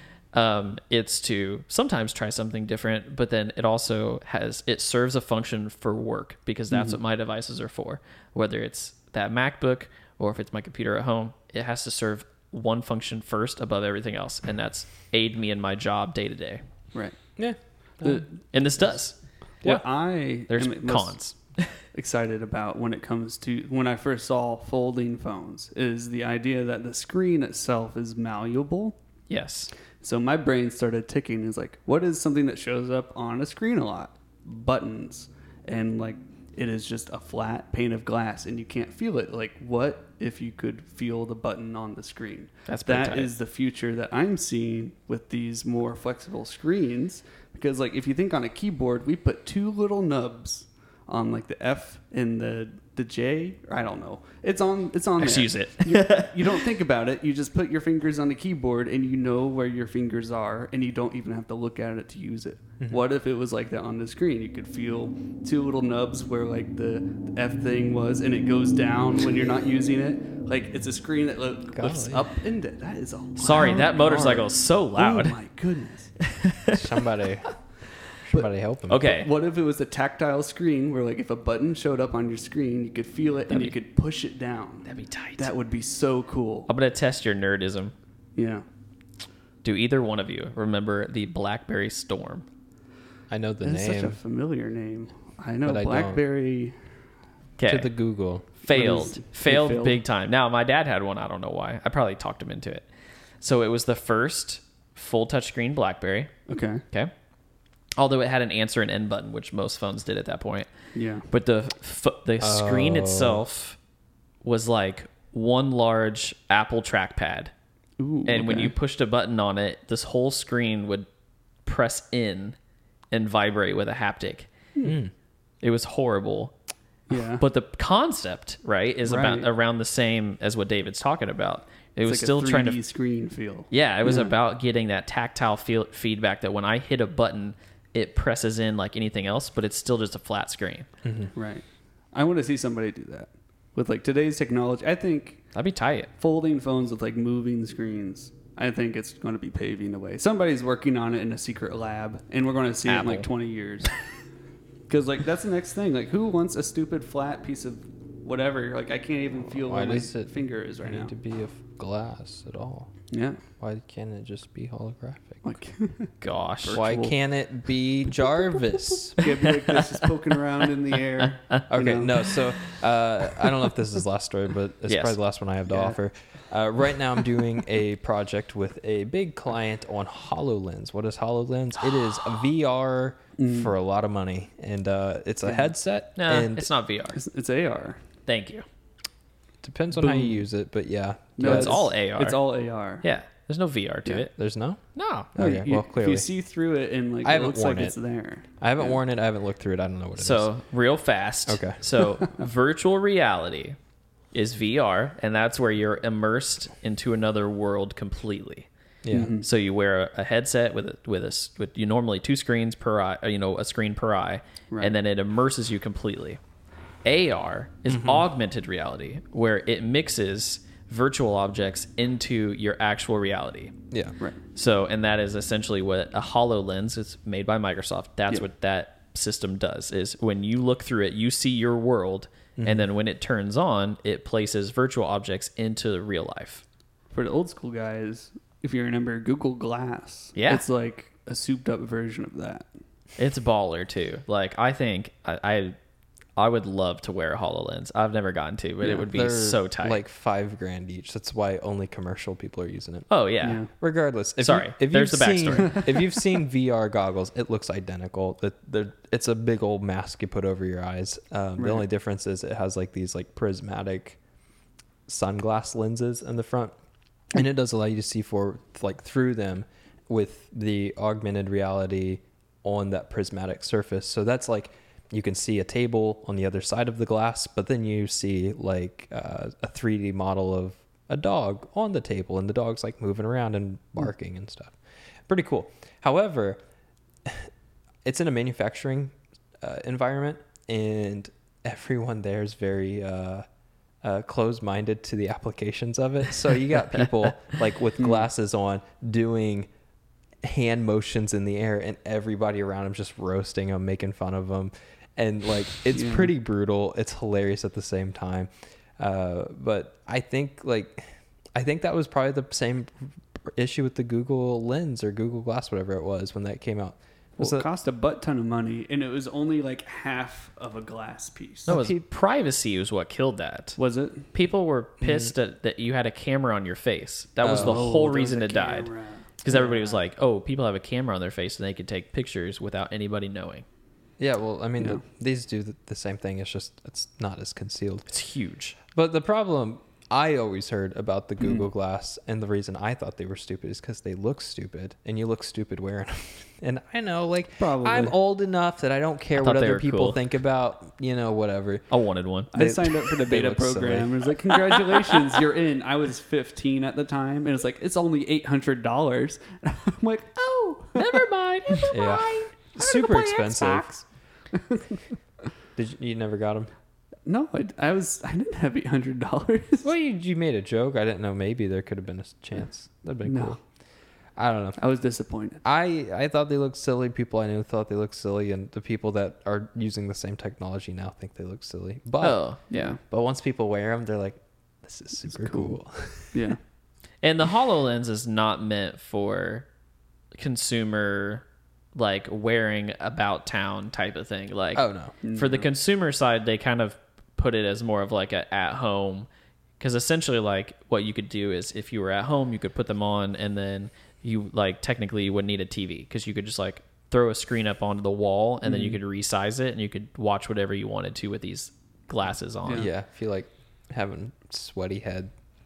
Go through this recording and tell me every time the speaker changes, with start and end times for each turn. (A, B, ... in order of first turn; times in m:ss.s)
0:00.3-0:16.6 A
0:06.7-0:07.0 B
0:17.4-0:18.2 C
0:18.0-0:18.3 B
0:18.5-0:19.2 A
0:19.6-0:21.2 B
0:20.5-0:21.7 A
0:21.9-0:29.0 B
0:29.3-0:29.7 A
0:30.0-1:16.1 B
0:42.7-0:43.3 A
0:55.2-0:56.6 A
1:11.8-1:12.3 C
1:13.4-1:15.4 A
1:14.1-1:14.4 C
1:16.2-1:16.8 A
1:16.7-1:17.5 C
1:18.2-1:19.1 C
1:18.9-1:19.3 A
1:19.0-1:26.7 B
1:23.5-1:23.8 A
1:24.8-1:25.5 A
1:26.7-1:27.9 A
1:28.4-1:28.6 B
1:29.6-1:32.5 A
1:33.3-1:34.2 C
1:33.6-1:36.8 B
1:35.6-1:36.2 C
1:37.6-1:37.9 A
1:37.7-1:38.5 C
1:38.6-1:42.9 A
1:38.7-1:40.0 B
1:43.4-1:46.3 A
1:46.5-1:46.8 B
1:48.0-1:50.7 A
1:50.9-1:51.3 B
1:51.3-1:53.8 A
1:52.4-1:53.4 C
1:54.4-1:57.5 A
1:58.0-1:58.8 B
1:58.3-2:01.1 A
2:01.6-2:02.6 A
2:03.1-2:04.5 A
2:04.8-2:05.1 C
2:05.6-2:06.5 A
2:07.1-2:07.4 B
2:07.4-2:12.8 A
2:09.0-2:09.5 B
2:12.0-2:14.3 B
2:13.7-2:20.9 A
2:21.0-2:21.3 C
2:21.4-2:25.5 B
2:25.5-2:26.1 A
2:26.2-2:33.9 B
2:32.8-2:33.3 A
2:34.9-2:41.1 B
2:39.5-2:42.9 C
2:43.1-2:43.4 B
2:43.6-2:45.4 C
2:45.4-2:47.2 B
2:46.2-2:46.8 A
2:46.7-2:49.3 C
2:49.1-2:52.3 B
2:51.2-2:51.6 A
2:51.7-3:06.7 C
2:54.9-2:55.2 A
2:55.7-2:56.0 B
3:03.4-3:03.7 B
3:05.5-3:05.7 B
3:06.2-3:07.2 A
3:07.2-3:08.0 B
3:08.3-3:08.6 A
3:09.6-3:11.8 C
3:10.0-3:10.4 B
3:11.4-3:13.0 B
3:11.4-3:12.4 A
3:13.0-3:14.3 A
3:14.2-3:14.8 C
3:15.0-3:15.3 A
3:15.4-3:16.3 C
3:15.4-3:19.0 B
3:17.2-3:18.0 C
3:18.6-3:20.5 C
3:20.2-3:23.8 A
3:21.5-3:21.8 C
3:24.3-3:28.7 A
3:29.0-3:29.3 C
3:29.1-3:29.5 B
3:29.3-3:36.4 A
3:37.0-3:43.8 A
3:37.9-3:38.3 C
3:44.6-3:56.6 A
3:52.6-3:52.9 C
3:57.1-4:02.7 B
4:00.4-4:00.6 A
4:03.2-4:05.8 A
4:06.4-4:10.0 A
4:08.8-4:13.1 C
4:13.1-4:13.7 A
4:13.4-4:13.7 B
4:13.8-4:24.2 C
4:14.4-4:15.9 A
4:21.6-4:21.8 B
4:25.1-4:26.7 C
4:27.3-4:44.8 C
4:45.3-4:46.6 C
4:47.2-4:47.5 C
4:48.0-4:53.5 C
4:54.0-4:59.7 C
4:58.0-4:58.3 B
5:00.4-5:17.7 C
5:05.9-5:06.3 B
5:17.4-5:21.7 B
5:21.7-5:23.8 A
5:21.7-5:22.0 C
5:23.8-5:24.3 B
5:24.3-5:28.9 A
5:25.0-5:25.3 C
5:27.4-5:27.8 C
5:27.4-5:30.0 B
5:29.4-5:33.6 A
5:34.2-5:38.1 C
5:38.1-5:38.8 A
5:38.9-5:51.8 C
5:41.4-5:41.6 B
5:47.6-5:48.2 B
5:49.4-5:50.2 A
5:51.9-5:52.5 A
5:52.5-5:54.2 C
5:52.5-6:01.8 B
6:01.0-6:03.9 A
6:01.9-6:04.1 C
6:04.5-6:05.0 B
6:05.8-6:06.7 C
6:07.3-6:09.9 B
6:09.8-6:13.6 C
6:13.2-6:13.6 B
6:14.4-6:14.8 C
6:14.8-6:15.6 B
6:15.6-6:22.4 C
6:22.2-6:22.9 A
6:22.7-6:23.0 B
6:23.0-6:26.4 C
6:25.3-6:25.8 B
6:26.3-6:26.6 B
6:27.2-6:29.7 A
6:30.3-6:31.4 A
6:32.0-6:39.3 A
6:34.8-6:35.2 C
6:35.2-6:35.7 B
6:39.8-6:52.9 A
6:48.6-6:49.0 B
6:52.8-6:55.3 C